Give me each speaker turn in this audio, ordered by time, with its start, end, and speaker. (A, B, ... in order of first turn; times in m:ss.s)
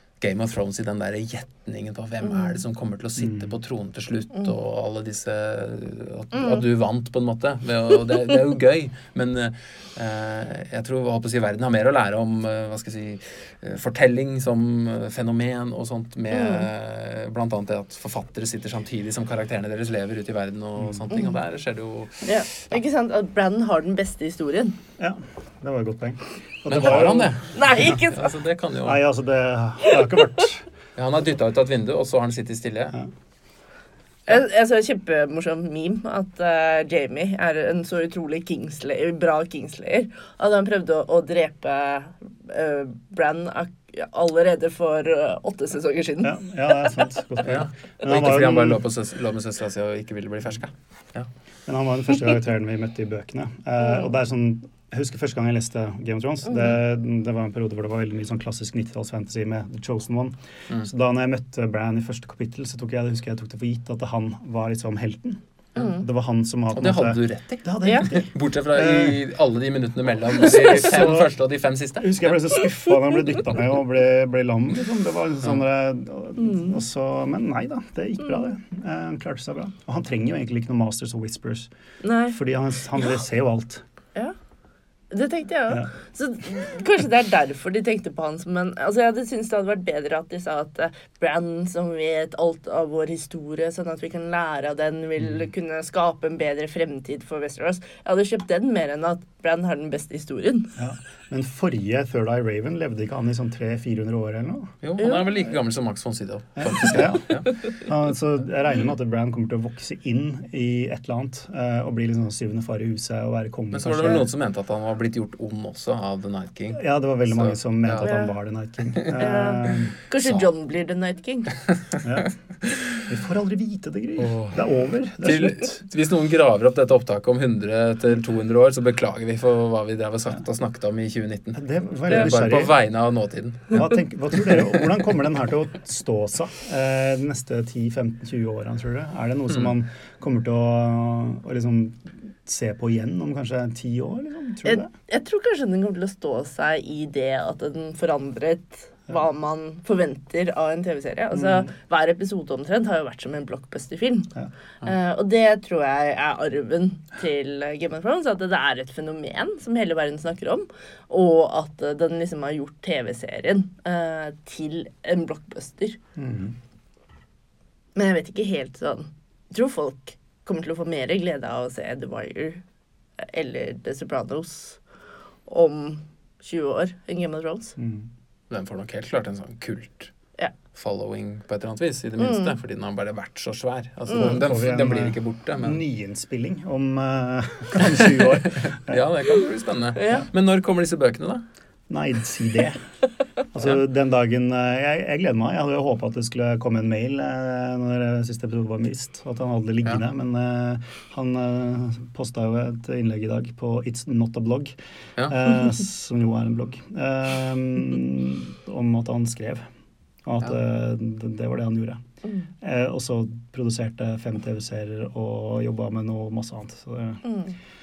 0:00.2-0:22.8 A
0:02.2-0:02.6 B
0:03.2-0:03.5 C
0:06.3-0:06.6 B
0:16.3-0:16.7 B
0:20.8-0:21.0 C
0:21.1-0:21.4 B
0:22.2-0:24.8 B
0:25.0-0:28.0 C
0:26.7-0:29.0 A
0:27.5-0:28.3 B
0:28.8-0:30.7 C
0:31.0-0:32.9 A
0:34.3-0:47.1 B
0:46.2-0:48.8 C
0:47.4-0:51.3 A
0:51.7-1:09.2 C
1:05.8-1:06.0 B
1:06.7-1:12.5 A
1:07.8-1:08.1 B
1:10.4-1:11.3 C
1:12.0-1:21.7 C
1:16.4-1:16.8 B
1:22.0-1:22.4 B
1:22.3-1:23.8 C
1:25.1-1:40.8 B
1:40.8-1:44.7 C
1:44.8-1:47.6 A
1:45.0-1:45.3 B
1:46.6-1:54.2 C
1:53.7-1:58.2 A
1:56.7-2:00.0 C
1:58.0-1:58.3 B
1:58.9-1:59.5 A
1:59.2-2:01.5 B
2:00.2-2:00.5 A
2:01.6-2:03.0 A
2:02.0-2:02.3 C
2:03.1-2:05.7 C
2:04.2-2:04.6 A
2:05.2-2:13.9 A
2:11.6-2:12.7 C
2:13.7-2:24.9 C
2:24.6-2:46.0 B
2:31.3-2:31.7 C
2:46.2-2:46.6 C
2:48.0-2:52.6 B
2:53.2-2:54.8 B
2:55.5-2:57.8 B
2:57.8-2:58.1 C
2:58.5-3:00.1 A
3:00.7-3:05.8 A
3:02.2-3:02.6 B
3:04.1-3:04.4 B
3:04.1-3:09.0 C
3:07.8-3:11.4 A
3:10.0-3:10.3 B
3:11.9-3:12.8 C
3:13.5-3:24.8 C
3:25.3-3:29.6 C
3:30.3-3:32.0 C
3:32.6-3:37.2 C
3:37.2-3:37.6 B